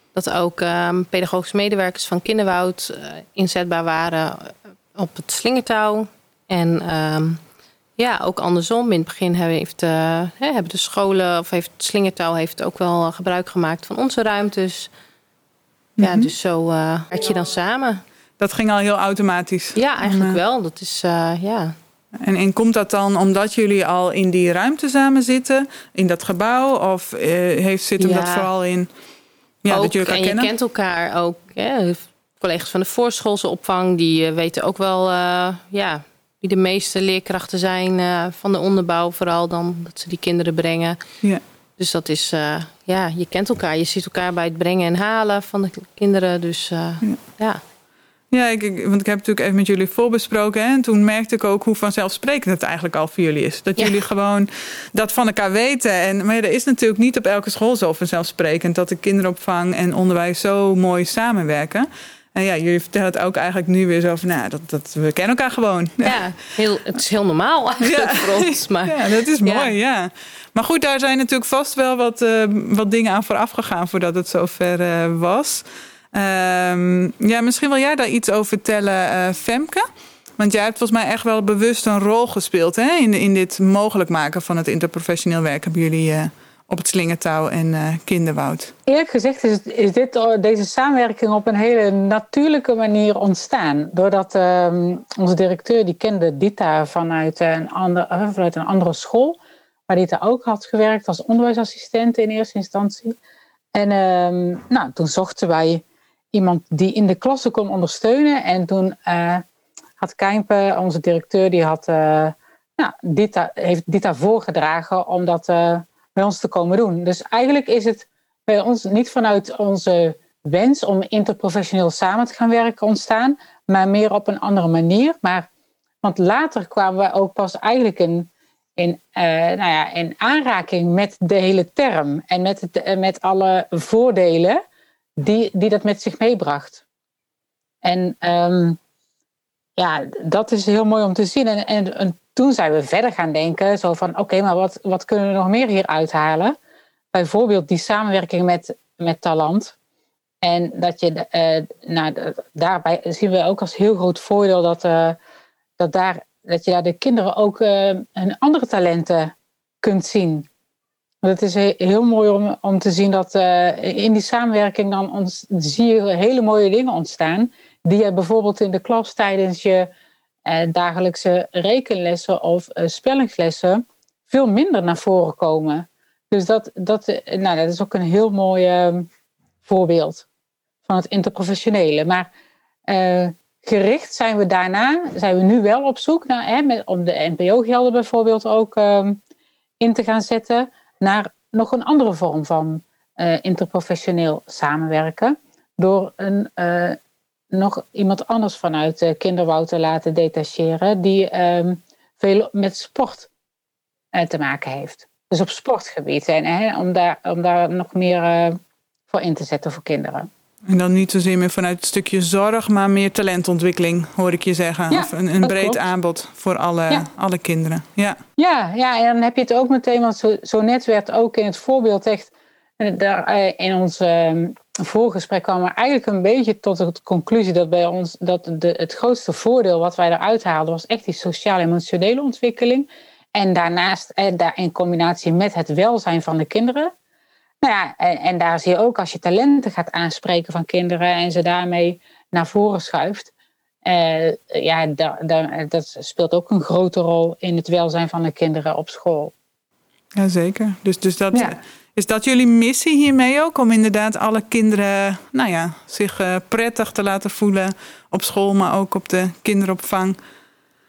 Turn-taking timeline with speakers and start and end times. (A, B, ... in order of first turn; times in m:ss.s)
0:00.1-0:07.4 A
0:08.0-0:14.9 A
0:16.0-0:16.3 B
0:16.0-0:18.0 A
0:18.4-0:20.4 B
0:19.8-0:21.7 A
0:22.2-0:28.9 B
0:28.0-0:28.5 A
0:29.6-0:30.5 B
0:29.7-0:41.0 A
0:41.8-0:47.6 A
0:48.3-1:06.2 B
1:06.0-1:09.7 A
1:07.8-1:19.8 B
1:20.4-1:28.7 B
1:28.8-1:39.4 C
1:39.9-1:43.2 C
1:43.7-1:49.4 C
1:50.0-2:05.5 C
2:06.0-2:14.6 C
2:15.2-2:16.8 C
2:17.8-2:18.8 C
2:19.8-2:26.6 C
2:27.1-2:29.7 C
2:30.4-2:35.2 C
2:35.8-2:40.5 C
2:41.2-2:49.9 C
2:50.4-2:59.1 C
2:59.6-3:00.2 C
3:00.8-3:02.3 C
3:02.9-3:09.2 C
3:09.8-3:17.0 C
3:17.5-3:23.3 C
3:24.1-3:30.3 C
3:30.7-3:38.2 B
3:34.9-3:35.9 C
3:38.4-3:56.9 C
3:57.6-4:03.3 C
4:03.8-4:09.3 C
4:10.2-4:20.2 B